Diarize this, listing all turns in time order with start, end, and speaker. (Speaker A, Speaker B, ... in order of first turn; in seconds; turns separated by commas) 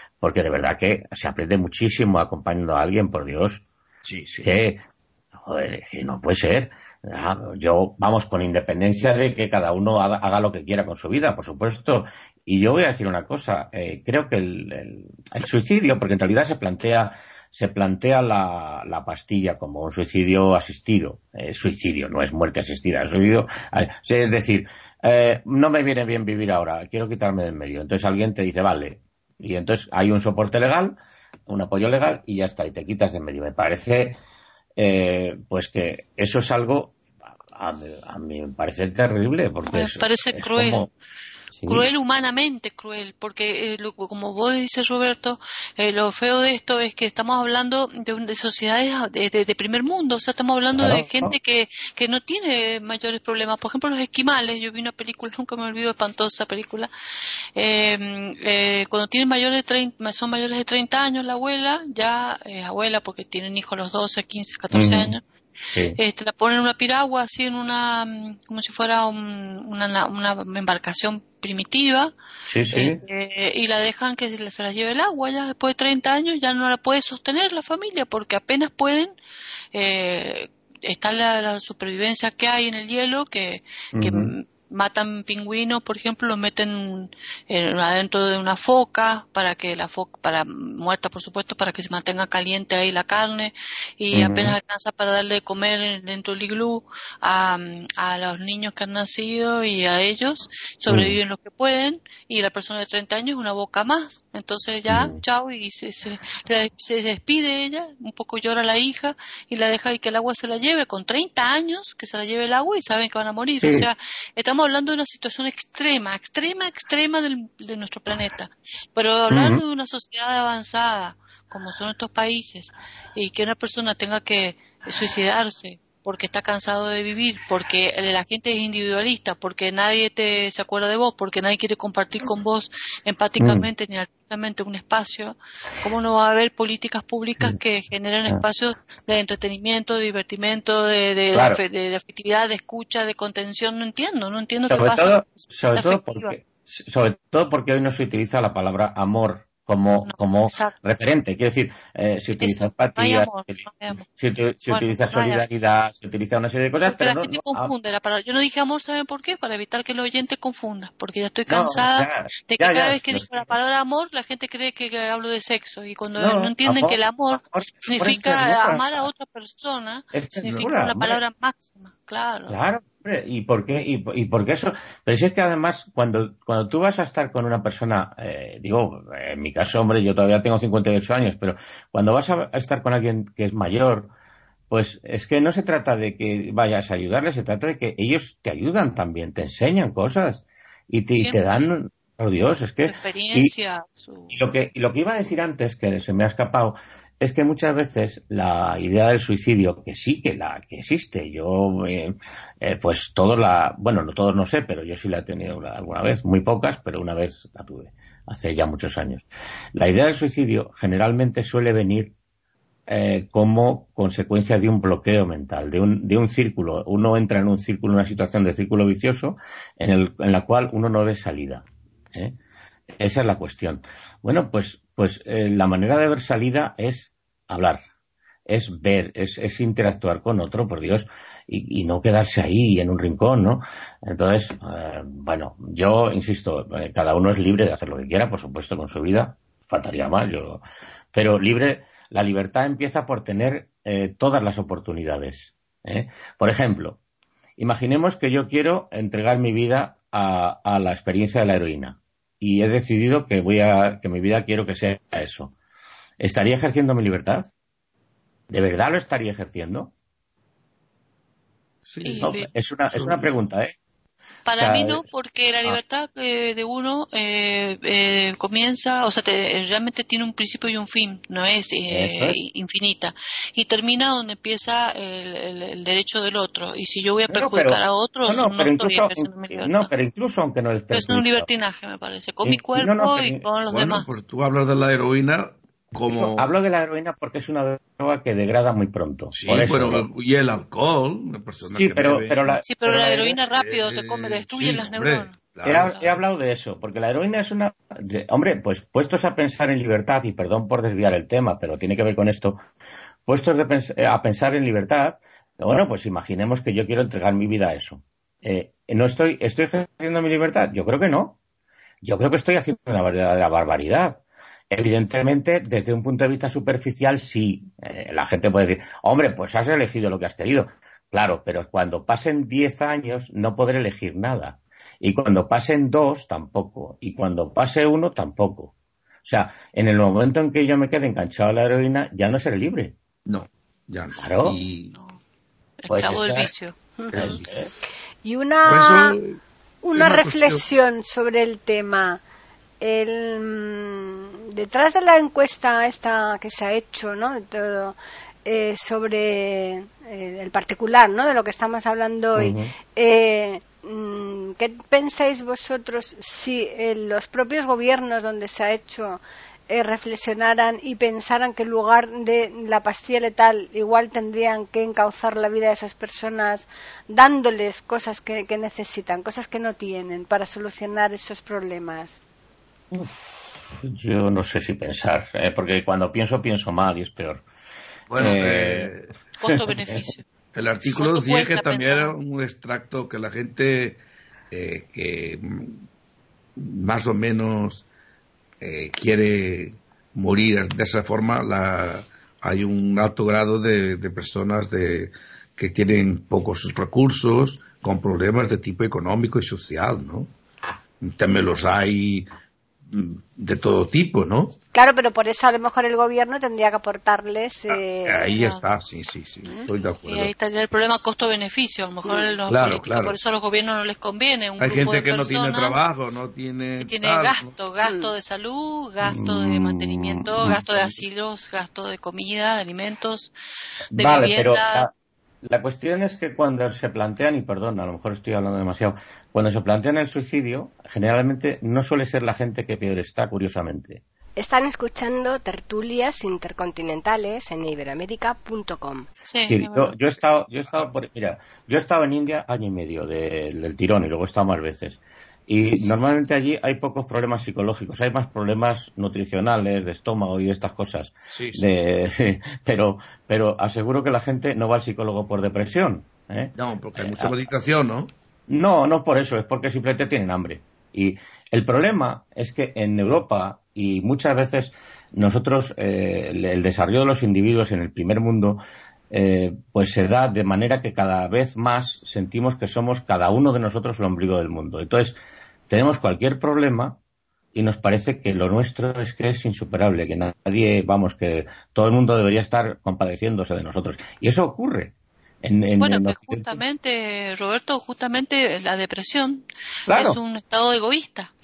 Speaker A: 0.2-3.6, Speaker B: 4.0-4.5, Speaker A: 4.4-4.8, Speaker A: 5.4-34.2, Speaker A: 34.8-37.0, Speaker A: 37.5-40.9, Speaker C: 39.7-40.9, Speaker A: 41.5-41.9, Speaker C: 41.7-56.9, Speaker A: 50.8-51.4, Speaker C: 57.6-65.2, Speaker A: 64.7-65.2, Speaker A: 65.7-66.0, Speaker C: 66.0-72.2, Speaker A: 72.5-73.0, Speaker C: 72.7-79.1, Speaker C: 79.7-146.3, Speaker A: 84.0-84.3, Speaker A: 94.1-94.6, Speaker A: 100.9-101.2, Speaker A: 104.9-105.2, Speaker A: 113.6-113.9, Speaker A: 119.3-119.6, Speaker A: 133.4-133.7, Speaker A: 141.3-141.6, Speaker A: 144.7-157.7, Speaker C: 150.1-150.8, Speaker C: 152.4-154.1, Speaker C: 154.7-155.5, Speaker C: 156.9-172.6, Speaker A: 161.5-163.5, Speaker A: 166.2-169.1, Speaker A: 170.1-171.2, Speaker A: 172.5-184.1, Speaker A: 184.7-193.5, Speaker C: 192.8-194.4, Speaker A: 194.3-209.2, Speaker A: 209.8-212.1, Speaker A: 212.9-222.4, Speaker A: 223.0-227.8, Speaker A: 228.5-247.0, Speaker A: 247.6-255.5, Speaker A: 256.2-257.5, Speaker A: 258.5-259.9, Speaker B: 261.9-262.3, Speaker C: 262.0-262.5, Speaker A: 262.2-263.8, Speaker B: 262.9-263.3, Speaker C: 264.5-279.9, Speaker A: 264.5-265.1, Speaker A: 271.9-272.4, Speaker A: 277.3-281.5, Speaker C: 280.9-284.1, Speaker A: 282.4-283.4, Speaker B: 283.7-286.5, Speaker A: 286.2-290.1, Speaker B: 289.3-296.0, Speaker A: 291.6-293.4, Speaker C: 292.6-296.1, Speaker A: 295.6-302.6, Speaker A: 303.3-311.4, Speaker A: 312.0-328.7, Speaker A: 329.2-333.0, Speaker B: 333.3-335.0, Speaker A: 334.2-334.6, Speaker C: 335.8-337.4, Speaker A: 335.9-336.5, Speaker A: 337.1-337.7, Speaker D: 338.2-339.2, Speaker B: 338.6-339.4, Speaker D: 339.8-342.2, Speaker B: 340.0-340.6, Speaker D: 342.8-372.2, Speaker A: 352.4-352.7, Speaker A: 372.9-377.4, Speaker B: 378.1-379.1, Speaker A: 378.1-378.9, Speaker C: 379.4-380.2, Speaker A: 379.5-380.1, Speaker B: 380.5-385.8, Speaker C: 380.8-382.2, Speaker B: 386.6-387.9, Speaker B: 388.6-400.3, Speaker B: 401.0-402.3, Speaker B: 402.9-404.6, Speaker D: 404.7-408.4, Speaker B: 407.7-410.3, Speaker C: 408.3-408.6, Speaker C: 410.0-415.8, Speaker D: 412.1-412.4, Speaker B: 412.5-413.2, Speaker B: 414.6-417.5, Speaker C: 416.8-423.3, Speaker D: 417.8-418.1, Speaker A: 419.0-420.6, Speaker A: 423.9-424.9, Speaker C: 423.9-424.9, Speaker A: 425.4-434.0, Speaker D: 434.4-439.1, Speaker C: 439.3-440.0, Speaker A: 439.5-457.4, Speaker B: 451.3-451.6, Speaker B: 456.6-458.1, Speaker A: 458.5-468.6, Speaker A: 469.1-475.2, Speaker A: 475.7-477.0, Speaker A: 477.5-486.6, Speaker C: 485.8-491.3, Speaker A: 489.9-490.2